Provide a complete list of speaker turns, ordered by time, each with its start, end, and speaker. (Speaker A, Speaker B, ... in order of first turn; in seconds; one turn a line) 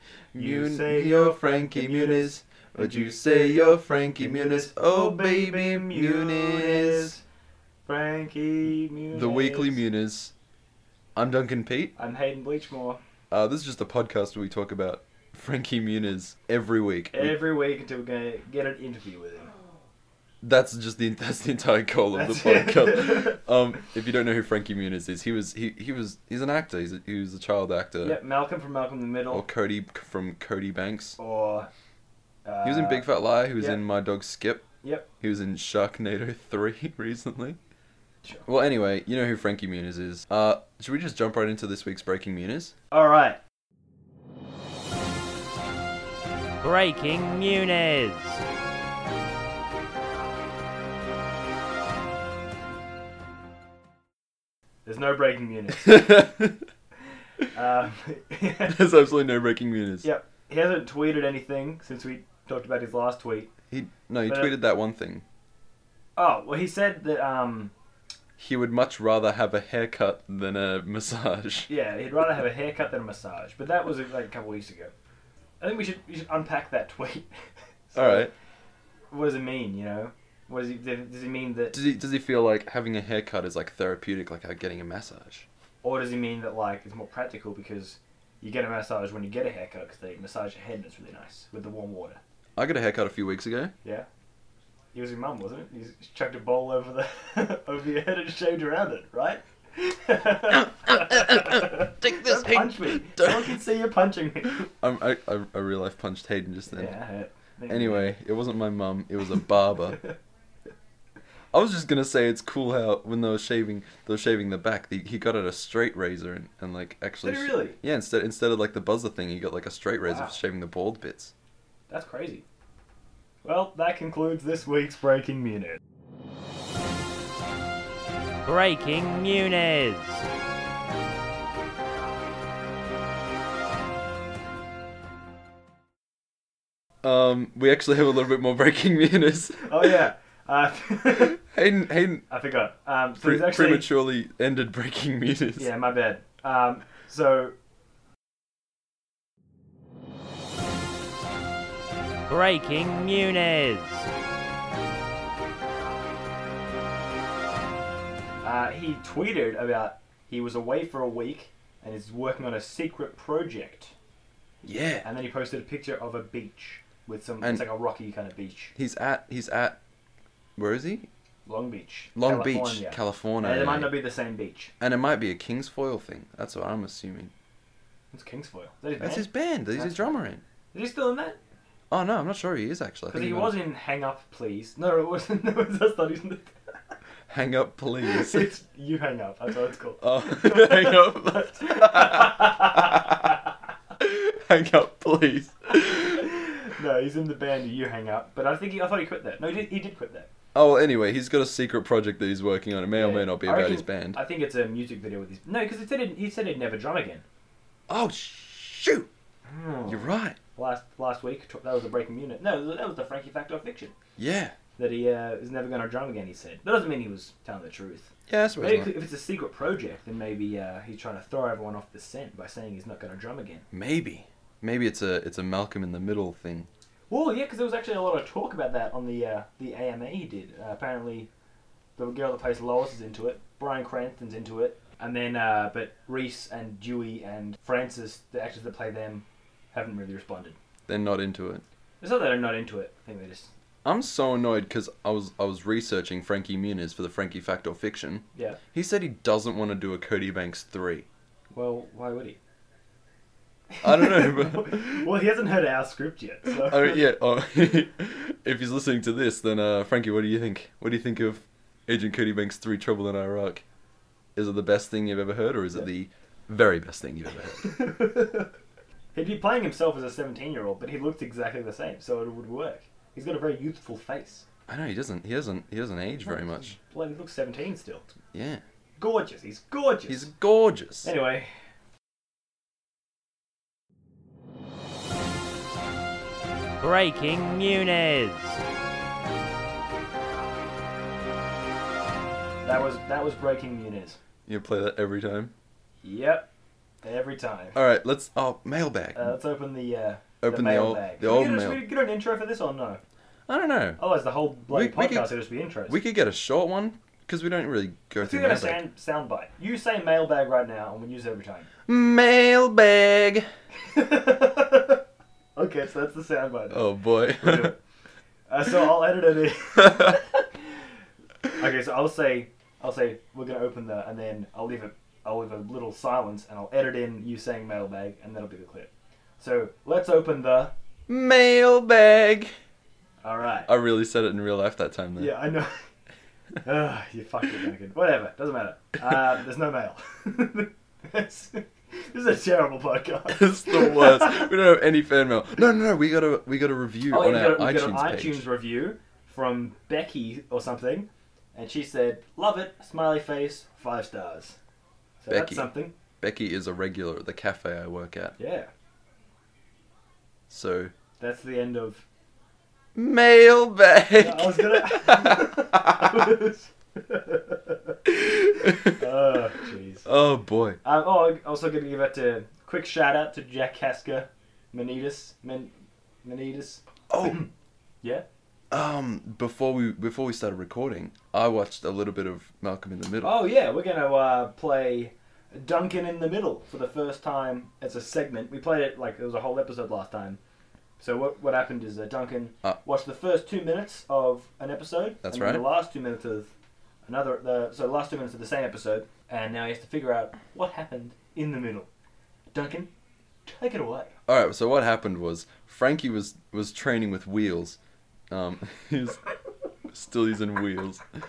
Speaker A: 0.3-7.1
Speaker B: 0.3-7.2
Speaker B: 7.8-9.8
Speaker A: 9.1-10.3
Speaker A: 11.2-11.9
Speaker B: 11.9-13.0
Speaker A: 13.3-17.4
Speaker B: 17.1-19.5
Speaker A: 20.4-28.2
Speaker B: 22.1-23.4
Speaker B: 28.0-29.4
Speaker A: 29.3-31.2
Speaker B: 31.2-31.7
Speaker B: 32.4-33.0
Speaker A: 32.6-34.6
Speaker B: 33.6-33.8
Speaker A: 35.2-37.6
Speaker A: 38.5-42.7
Speaker B: 42.9-43.4
Speaker C: 46.6-48.4
Speaker B: 54.9-56.1
Speaker A: 55.9-56.6
Speaker B: 57.5-58.8
Speaker A: 58.7-60.1
Speaker B: 60.0-63.5
Speaker A: 63.7-65.2
Speaker B: 64.3-64.5
Speaker B: 66.2-67.7
Speaker A: 68.4-71.7
Speaker B: 71.7-74.9
Speaker B: 75.6-77.3
Speaker B: 77.9-78.3
Speaker A: 78.0-78.3
Speaker B: 79.1-81.7
Speaker A: 81.7-85.5
Speaker B: 85.8-92.2
Speaker A: 92.6-93.7
Speaker B: 93.8-94.1
Speaker B: 94.9-104.7
Speaker A: 100.5-103.6
Speaker A: 104.5-107.0
Speaker B: 106.7-108.1
Speaker A: 107.7-110.0
Speaker B: 109.8-110.1
Speaker A: 111.5-121.3
Speaker B: 117.2-117.8
Speaker B: 120.1-120.3
Speaker B: 121.9-122.4
Speaker B: 123.4-125.8
Speaker C: 128.4-130.2
Speaker A: 137.0-139.9
Speaker B: 139.6-141.4
Speaker A: 141.4-142.2
Speaker B: 142.3-143.9
Speaker A: 143.2-145.7
Speaker B: 145.6-147.5
Speaker C: 152.3-154.1
Speaker B: 158.4-163.9
Speaker A: 164.6-165.1
Speaker B: 165.0-168.7
Speaker A: 168.8-169.8
Speaker A: 170.6-171.1
Speaker B: 171.4-174.7
Speaker A: 172.2-173.9
Speaker A: 174.8-177.3
Speaker B: 178.1-180.2
Speaker A: 179.0-180.4
Speaker B: 180.7-181.4
Speaker A: 181.9-183.6
Speaker B: 183.1-186.5
Speaker A: 187.3-188.5
Speaker B: 188.0-193.3
Speaker A: 190.0-193.2
Speaker A: 194.0-196.3
Speaker B: 196.2-200.3
Speaker A: 200.5-204.2
Speaker B: 202.9-207.2
Speaker A: 207.9-209.1
Speaker B: 209.5-213.9
Speaker A: 209.9-210.4
Speaker A: 214.2-214.5
Speaker B: 214.8-223.6
Speaker A: 218.3-218.9
Speaker A: 223.7-226.7
Speaker B: 227.1-231.3
Speaker B: 232.0-240.6
Speaker A: 240.9-241.6
Speaker B: 242.0-243.5
Speaker A: 243.8-251.1
Speaker B: 248.3-248.6
Speaker B: 251.5-252.4
Speaker B: 253.7-257.0
Speaker A: 253.8-255.1
Speaker A: 256.5-263.6
Speaker A: 264.4-267.8
Speaker B: 267.6-268.5
Speaker B: 269.1-274.4
Speaker A: 274.7-276.7
Speaker B: 276.2-278.1
Speaker A: 278.3-278.6
Speaker B: 279.0-280.3
Speaker A: 280.1-281.1
Speaker B: 281.0-281.5
Speaker C: 286.8-288.6
Speaker B: 292.6-294.2
Speaker A: 294.5-295.5
Speaker B: 296.0-296.5
Speaker B: 297.0-297.8
Speaker A: 297.7-299.3
Speaker B: 299.1-303.0
Speaker A: 300.4-301.8
Speaker A: 303.5-304.0
Speaker B: 304.0-306.0
Speaker A: 304.7-305.3
Speaker A: 305.9-308.8
Speaker B: 308.2-311.7
Speaker A: 311.9-313.5
Speaker B: 313.8-315.0
Speaker B: 315.6-317.8
Speaker A: 316.7-317.7
Speaker B: 318.5-320.4
Speaker A: 319.8-320.1
Speaker B: 321.6-330.7
Speaker A: 331.1-332.5
Speaker B: 333.2-333.7
Speaker A: 333.7-335.4
Speaker B: 335.2-335.7
Speaker B: 336.6-344.5
Speaker A: 343.3-348.4
Speaker B: 347.1-354.6
Speaker B: 355.2-355.9
Speaker A: 355.3-358.4
Speaker B: 358.4-358.7
Speaker A: 360.5-360.9
Speaker B: 361.2-362.1
Speaker A: 362.9-366.3
Speaker B: 364.1-367.9
Speaker A: 368.1-369.0
Speaker B: 368.6-370.1
Speaker A: 370.1-370.8
Speaker B: 370.8-375.7
Speaker B: 376.2-377.4
Speaker A: 377.1-377.4
Speaker A: 378.7-383.5
Speaker B: 383.2-390.4
Speaker B: 391.0-396.5
Speaker A: 395.2-395.6
Speaker B: 397.1-401.9
Speaker B: 402.5-402.9
Speaker B: 403.4-404.1
Speaker A: 404.3-407.8
Speaker A: 408.3-409.2
Speaker A: 409.9-411.0